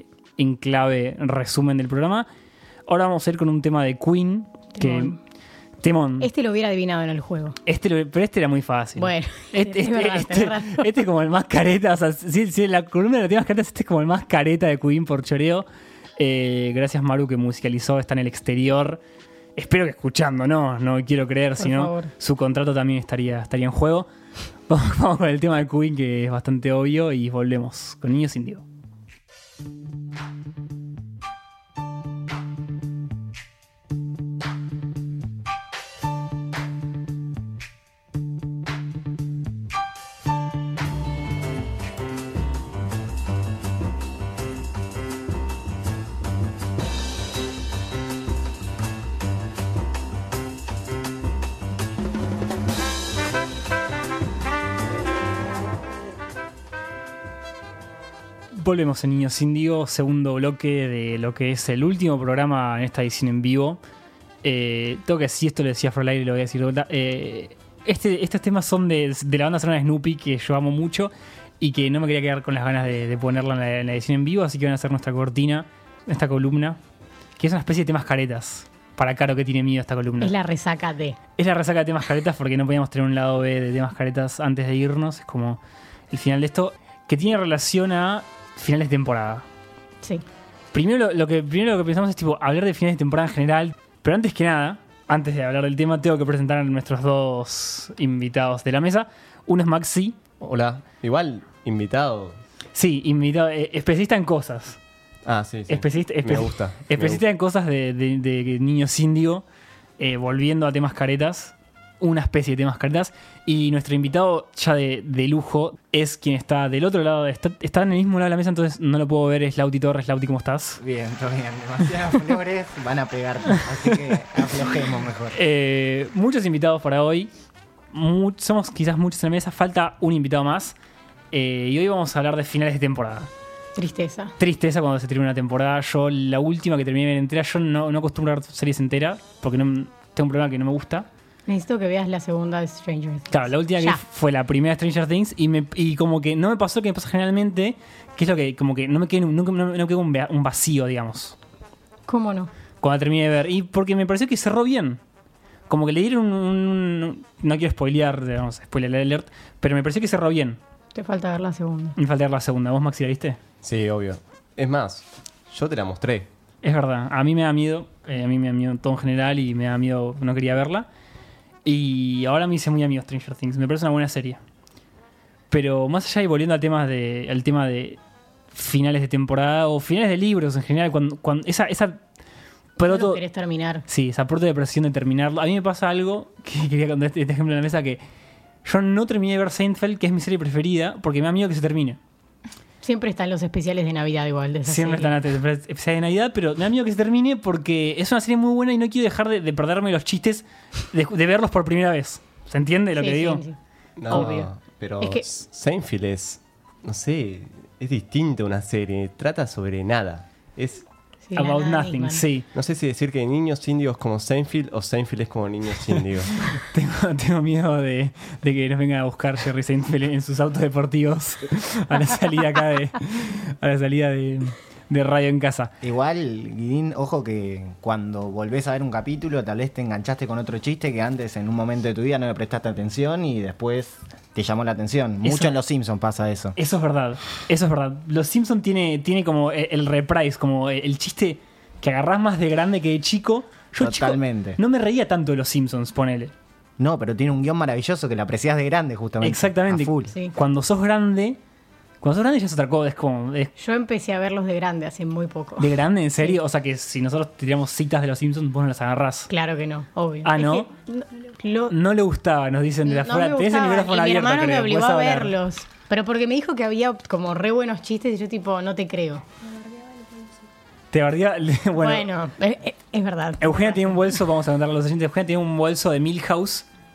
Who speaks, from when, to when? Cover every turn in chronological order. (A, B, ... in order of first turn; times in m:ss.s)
0:00.4-0:02.3 A
0:02.9-0:05.2 A
0:04.8-0:05.2 B
0:05.8-0:06.3 A
0:06.2-0:07.6 B
0:07.7-0:15.7 A
0:09.0-0:10.9 B
0:16.2-0:19.0 A
0:19.6-0:24.1 A
0:21.6-0:22.1 B
0:24.7-0:28.6 A
0:58.5-1:03.8 A
1:04.4-1:16.8 A
1:17.4-1:20.3 A
1:20.2-1:21.2 B
1:21.4-1:25.6 A
1:26.1-1:29.4 A
1:30.7-1:40.2 A
1:40.4-1:42.4 C
1:42.8-1:44.8 A
1:45.2-1:47.2 C
1:45.7-1:49.4 A
1:50.0-2:00.8 A
2:00.8-2:05.4 D
2:03.5-2:04.3 A
2:05.3-2:07.3 A
2:07.9-2:10.8 A
2:11.3-2:13.3 A
2:13.8-2:14.3 B
2:14.4-2:21.1 A
2:21.5-2:24.0 B
2:23.3-2:31.4 A
2:32.1-2:32.5 B
2:32.8-2:35.0 A
2:35.7-2:40.6 A
2:41.0-2:42.0 B
2:42.0-2:43.4 A
2:43.6-2:46.3 C
2:46.6-2:50.9 A
2:51.6-2:54.4 A
2:55.5-2:58.0 A
2:58.5-3:02.0 A
3:02.8-3:03.2 A
3:02.8-3:03.8 B
3:03.9-3:08.0 A
3:08.6-3:12.0 A
3:12.8-3:15.1 B
3:14.7-3:23.4 A
3:23.0-3:23.6 B
3:24.0-3:30.8 C
3:24.1-3:24.5 A
3:25.0-3:25.3 B
3:31.3-3:32.2 B
3:31.4-3:32.5 A
3:32.5-3:36.3 C
3:36.6-3:45.7 A
3:45.8-3:56.6 D
3:55.2-3:55.5 A
3:56.6-4:06.3 A
4:03.8-4:04.6 D
4:06.8-4:10.1 D
4:09.2-4:11.4 A
4:12.0-4:13.5 A
4:13.6-4:15.7 B
4:15.6-4:19.3 A
4:19.3-4:21.7 B
4:20.2-4:20.7 A
4:21.7-4:25.3 A
4:22.8-4:29.2 B
4:30.9-4:32.1 A
4:31.8-4:34.0 B
4:33.4-4:36.7 A